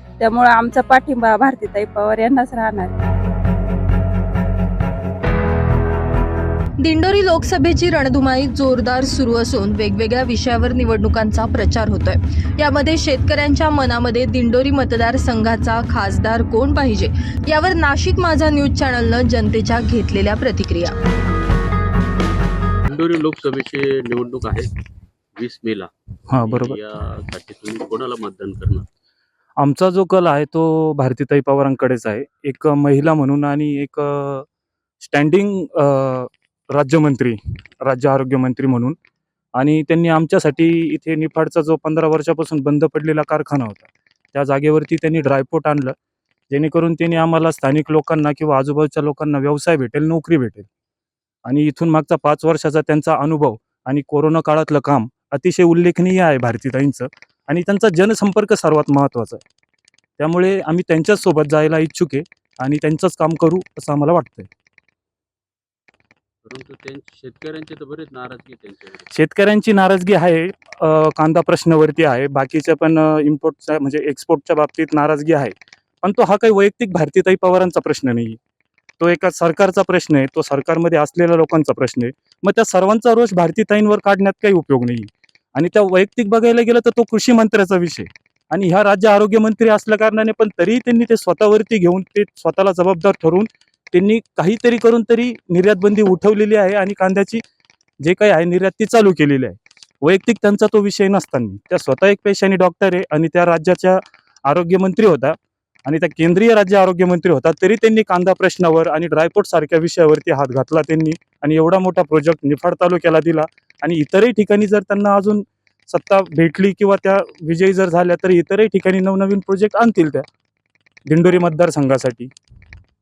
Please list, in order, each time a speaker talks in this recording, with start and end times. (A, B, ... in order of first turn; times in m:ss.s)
0:00.2-0:02.9 A
0:06.8-0:21.0 B
0:22.8-0:24.7 C
0:25.4-0:25.9 C
0:26.3-0:26.8 D
0:26.4-0:28.8 C
0:29.6-0:34.5 D
0:35.0-0:39.0 D
0:39.6-0:46.0 D
0:46.5-0:50.7 D
0:51.4-0:59.4 D
1:00.2-1:04.5 D
1:06.4-1:09.1 C
1:09.1-1:18.4 D
1:19.0-1:37.4 D
1:38.0-2:00.2 D
2:01.0-2:02.3 D